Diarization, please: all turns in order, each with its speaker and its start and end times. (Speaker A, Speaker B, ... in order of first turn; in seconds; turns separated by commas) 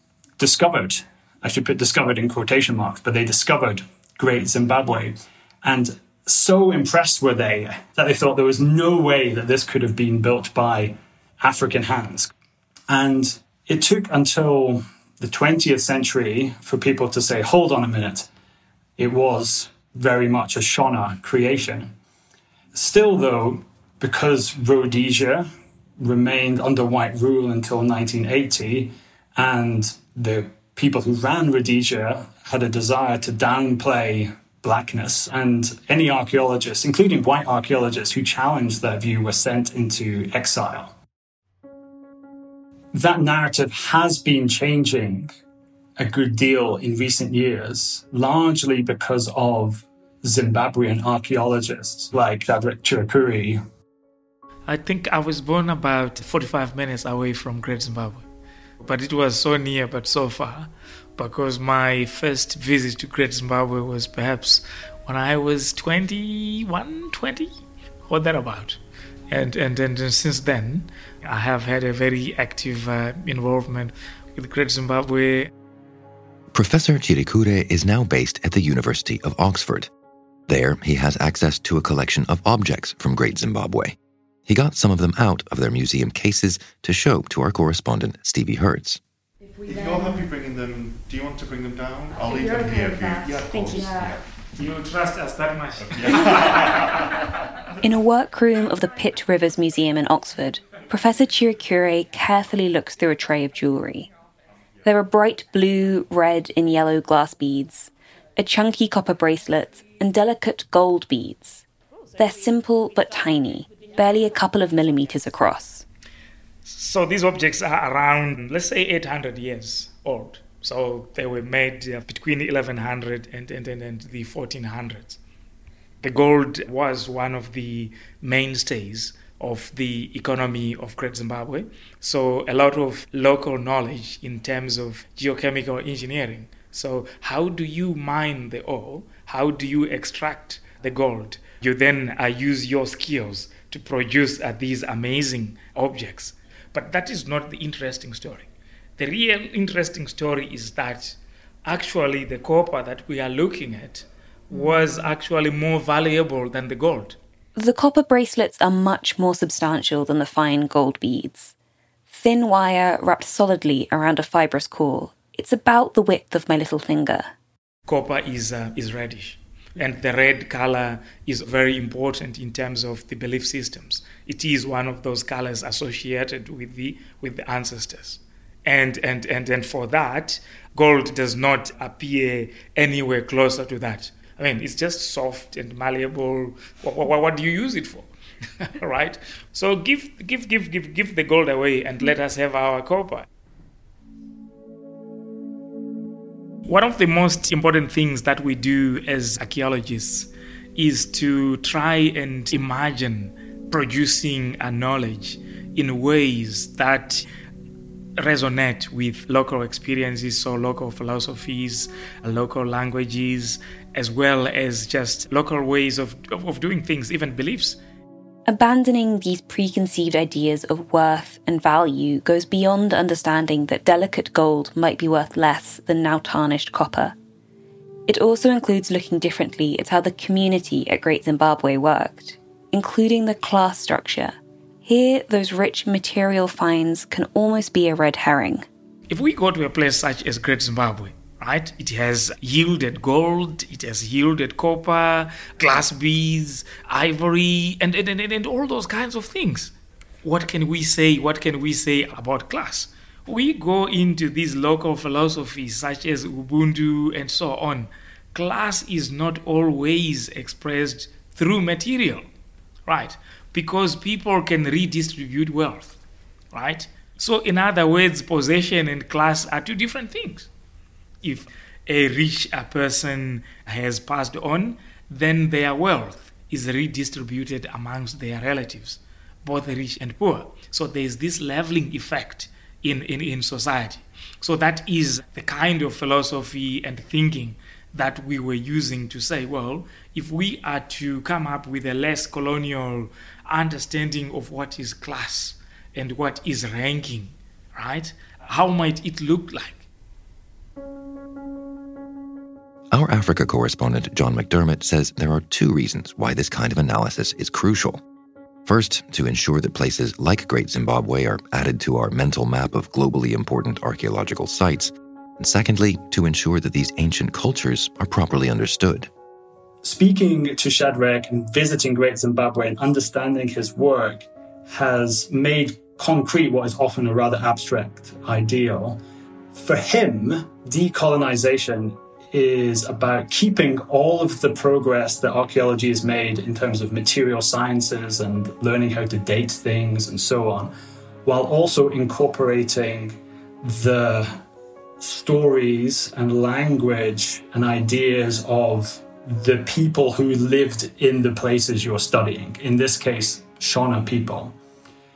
Speaker A: 0.4-12.3, Speaker A: 12.9-18.3, Speaker A: 19.0-21.9, Speaker A: 22.7-25.5, Speaker A: 26.0-40.9, Speaker A: 42.9-45.3, Speaker A: 46.0-53.6, Speaker B: 54.7-58.2, Speaker B: 58.8-67.5, Speaker B: 68.1-75.5, Speaker C: 76.5-79.9, Speaker C: 80.5-84.0, Speaker C: 84.5-89.0, Speaker D: 89.5-94.2, Speaker B: 94.6-97.0, Speaker D: 96.1-96.4, Speaker E: 97.8-104.1, Speaker E: 104.8-111.6, Speaker E: 112.2-115.8, Speaker B: 116.7-125.2, Speaker B: 126.0-157.2, Speaker E: 157.6-161.5, Speaker E: 162.1-167.3, Speaker B: 167.9-188.1, Speaker B: 188.7-193.3, Speaker B: 196.7-207.2, Speaker B: 208.2-217.8, Speaker E: 218.5-227.2, Speaker E: 228.1-238.7, Speaker B: 239.1-249.7, Speaker B: 250.2-262.2, Speaker B: 262.9-266.0, Speaker B: 266.5-270.5, Speaker B: 271.2-299.8, Speaker C: 302.9-308.0, Speaker C: 308.7-319.1, Speaker A: 319.8-329.0, Speaker A: 329.5-340.7, Speaker A: 341.2-344.4, Speaker A: 345.0-354.5